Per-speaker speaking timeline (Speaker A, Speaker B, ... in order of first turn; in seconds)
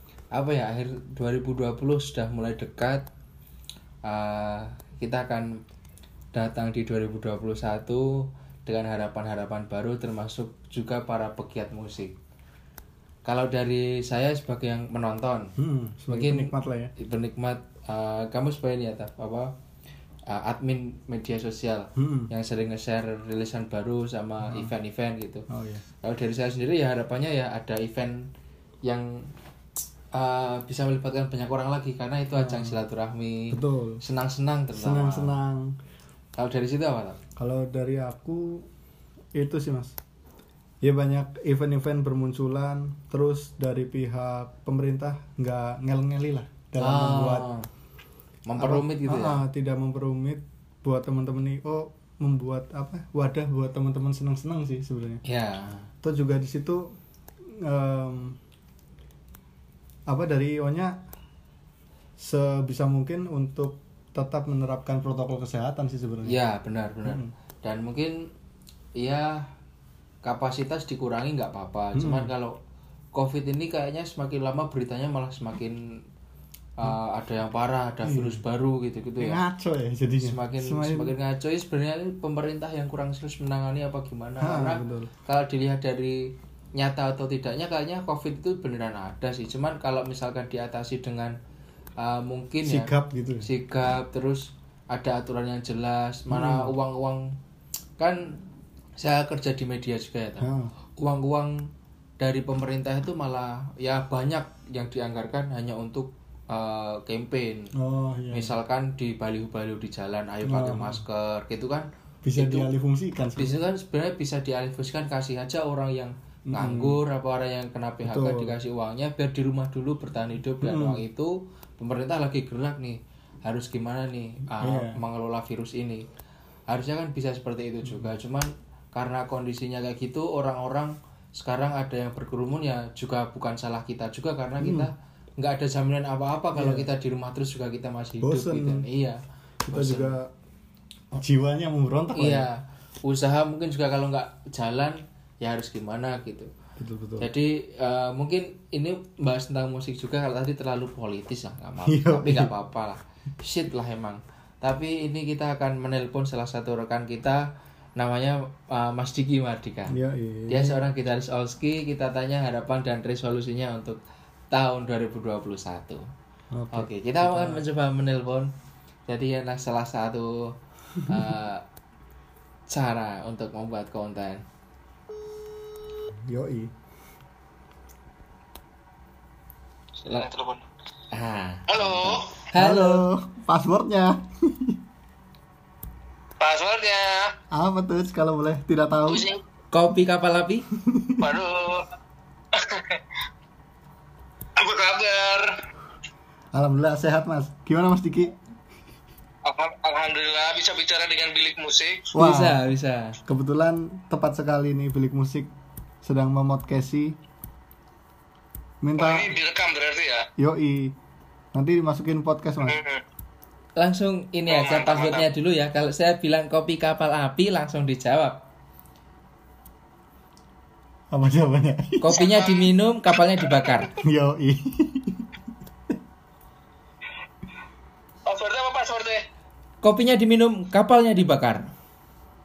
Speaker A: 0.3-3.0, 4.0-5.6, 6.3-12.2, 13.2-15.5, 16.1-19.5, 20.3-25.5, 26.0-28.3, 28.8-29.3, 30.1-35.4, 36.4-37.2, 46.8-47.7, 48.5-49.4, 55.2-55.9, 66.2-68.1, 69.0-69.4, 70.2-72.5, 73.1-75.8, 76.8-79.4, 80.2-91.3, 92.0-92.9, 93.4-97.3, 98.0-98.4, 99.0-101.5, 102.2-107.7, 108.3-112.7, 113.3-126.0, 126.7-139.2, 139.7-140.2, 142.2-146.5, 147.2-157.4, 158.0-159.9, 160.5-164.0, 164.5-166.0, 166.7-168.5, 169.1-170.5, 171.1-171.6, 172.7-174.4, 181.1-183.1, 189.7-190.7, 202.2-203.2, 213.8-218.4, 222.0-223.9, 229.8-231.7
Speaker B: 15.6-16.9, 21.9-22.3, 24.4-24.7, 25.5-25.8, 32.3-32.8, 33.5-34.0, 34.7-35.8, 37.4-38.7, 39.3-40.0, 40.8-47.5, 48.6-55.2, 56.0-56.9, 57.6-58.4, 60.1-61.0, 62.2-66.4, 71.9-72.3, 78.0-78.4, 79.2-81.1, 84.4-85.1, 92.6-93.5, 96.3-96.7, 100.4-100.7, 107.7-108.5, 110.4-111.0, 112.2-113.5, 116.5-117.0, 118.0-118.5, 120.6-121.0, 124.6-125.0, 127.8-128.1, 134.6-134.9, 136.5-136.9, 138.2-138.9, 139.6-140.3, 141.1-142.5, 146.8-147.3, 151.8-152.5, 159.9-160.8, 166.5-167.6, 176.3-176.7, 182.6-184.8, 187.5-189.2, 190.8-191.2, 196.5-198.4, 202.1-202.6, 203.3-205.5, 206.0-207.2, 208.8-209.3, 210.4-210.9, 211.5-212.8, 221.1-222.1, 224.0-225.3
Speaker C: 180.0-180.6, 181.7-182.3, 186.4-187.3, 189.1-189.4, 191.2-191.8, 192.5-193.0, 194.6-195.6, 199.4-202.1, 209.0-210.3, 212.6-213.0, 214.5-215.2, 222.1-222.7, 228.2-229.2